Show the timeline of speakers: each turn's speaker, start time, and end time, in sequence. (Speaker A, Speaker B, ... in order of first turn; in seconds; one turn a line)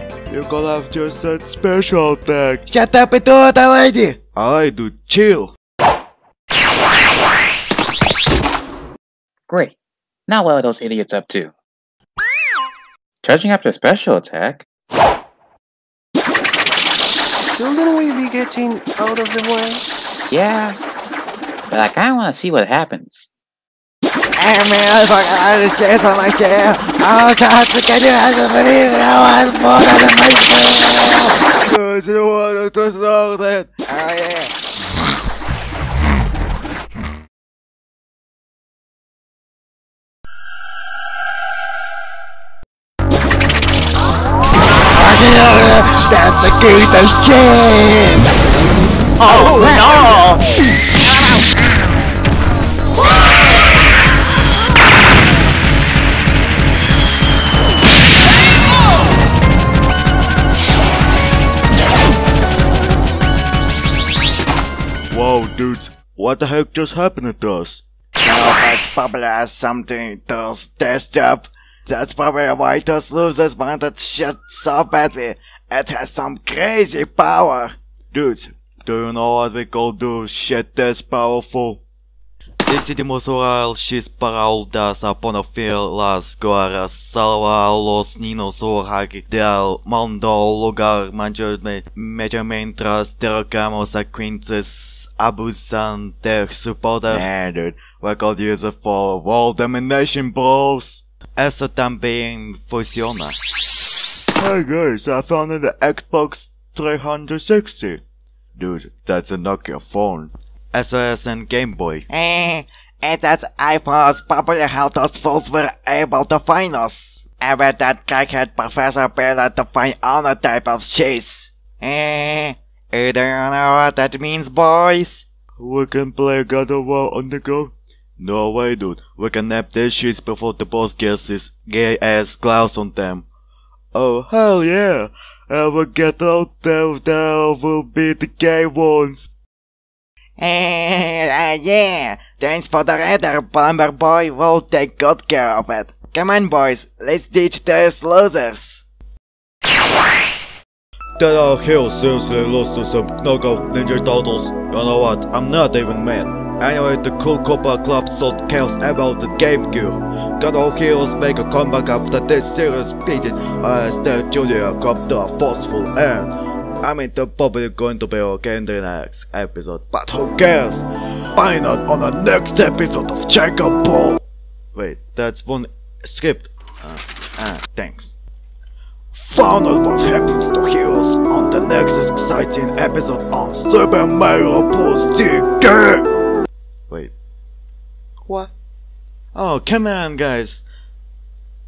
Speaker A: 0.3-2.7
Speaker B: 2.7-4.2
Speaker A: 4.3-5.5
Speaker C: 9.5-9.8
Speaker C: 10.3-11.5
Speaker C: 13.2-14.7
Speaker D: 17.4-19.9
Speaker C: 20.3-20.8
Speaker C: 21.7-23.3
Speaker B: 24.4-31.4
Speaker A: 31.6-33.7
Speaker B: 33.9-34.5
Speaker B: 44.9-48.3
Speaker C: 49.3-50.1
Speaker A: 65.1-67.8
Speaker B: 68.2-77.8
Speaker A: 78.1-81.8
Speaker A: 82.7-103.3
Speaker A: 104.4-108.0
Speaker A: 108.6-112.1
Speaker B: 112.1-125.2
Speaker A: 125.6-133.3
Speaker A: 133.9-139.3
Speaker B: 140.4-148.8
Speaker A: 151.2-166.3
Speaker A: 166.8-170.8
Speaker A: 171.4-174.2
Speaker A: 174.8-178.1
Speaker A: 179.1-186.0
Speaker A: 189.3-190.6